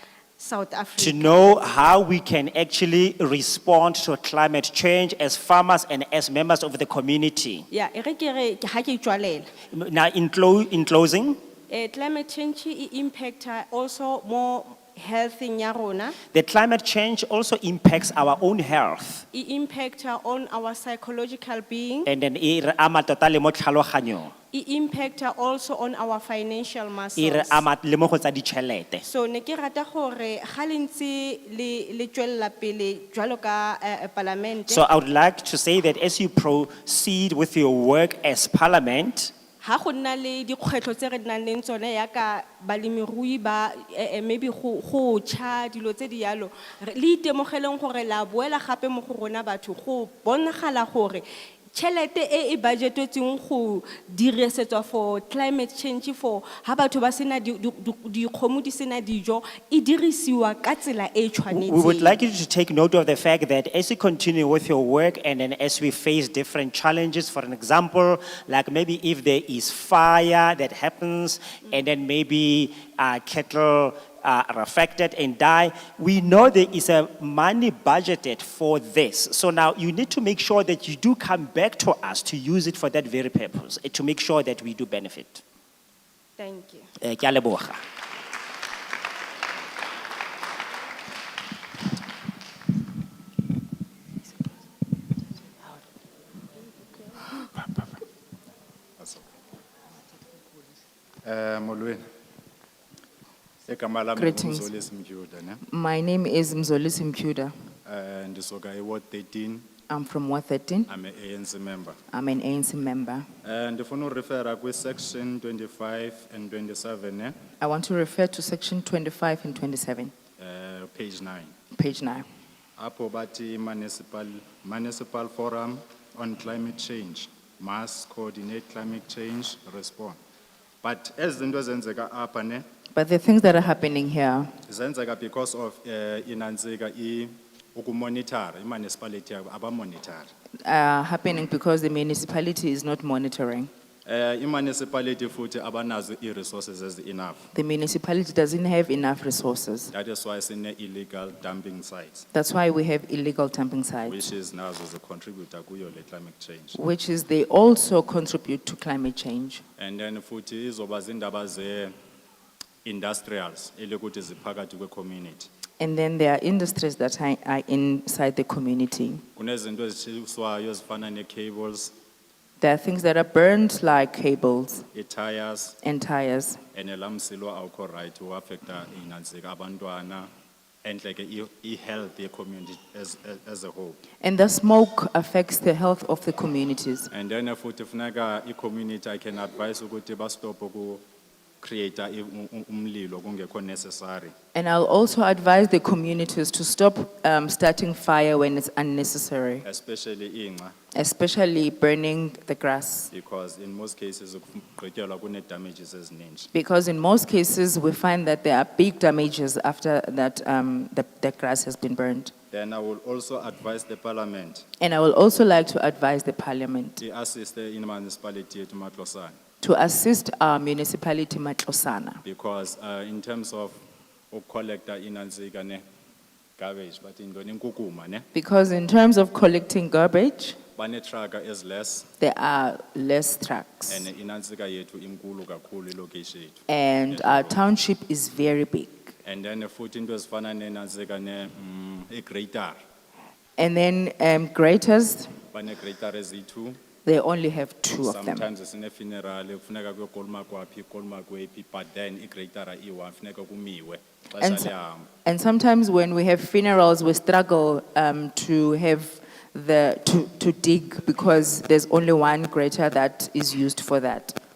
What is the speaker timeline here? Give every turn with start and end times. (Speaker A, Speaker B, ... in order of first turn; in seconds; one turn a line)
Speaker A: 0.4-1.5
Speaker B: 1.0-7.7
Speaker A: 7.7-9.5
Speaker B: 9.7-11.4
Speaker A: 11.7-16.1
Speaker B: 16.3-19.2
Speaker A: 19.3-22.1
Speaker B: 22.1-24.3
Speaker A: 24.5-27.6
Speaker B: 27.1-29.0
Speaker A: 29.0-34.8
Speaker B: 34.7-39.3
Speaker A: 39.6-62.2
Speaker B: 61.5-85.4
Speaker A: 86.4-86.9
Speaker B: 87.0-87.8
Speaker C: 99.0-99.3
Speaker C: 101.2-102.0
Speaker C: 103.7-105.6
Speaker D: 104.2-104.7
Speaker D: 105.7-107.5
Speaker C: 107.8-109.7
Speaker D: 109.9-110.9
Speaker C: 110.9-112.0
Speaker D: 112.1-113.3
Speaker C: 113.4-117.4
Speaker D: 117.6-120.1
Speaker C: 120.4-121.5
Speaker D: 121.7-122.2
Speaker C: 122.8-130.2
Speaker C: 130.8-132.6
Speaker D: 132.9-134.5
Speaker C: 134.6-140.3
Speaker D: 140.6-143.7
Speaker C: 144.0-147.5
Speaker D: 147.5-149.9
Speaker C: 149.9-152.3
Speaker D: 152.3-154.2
Speaker C: 154.1-156.8
Speaker D: 156.7-159.6
Speaker C: 159.8-161.9
Speaker C: 162.8-165.5
Speaker D: 165.8-169.2
Speaker C: 169.3-171.9
Speaker D: 172.6-174.9
Speaker C: 174.9-175.8
Speaker D: 175.8-176.6
Speaker C: 176.7-180.3
Speaker C: 180.8-184.0
Speaker D: 184.2-187.1
Speaker C: 187.1-191.0
Speaker C: 191.6-194.3
Speaker D: 194.5-199.6
Speaker C: 199.6-200.7
Speaker D: 200.9-203.1
Speaker C: 203.1-206.5
Speaker D: 206.5-212.3
Speaker C: 212.5-214.6
Speaker D: 214.8-217.0
Speaker C: 217.0-219.3
Speaker D: 219.6-222.2
Speaker C: 222.2-225.8
Speaker C: 226.6-228.3
Speaker D: 228.3-230.6
Speaker C: 230.8-232.1
Speaker D: 232.2-234.1
Speaker C: 233.9-237.6
Speaker D: 236.7-239.1
Speaker C: 239.2-242.8
Speaker D: 243.6-245.3
Speaker C: 245.5-246.8
Speaker D: 247.0-248.5
Speaker C: 248.0-255.1
Speaker D: 254.4-254.7
Speaker D: 255.2-264.4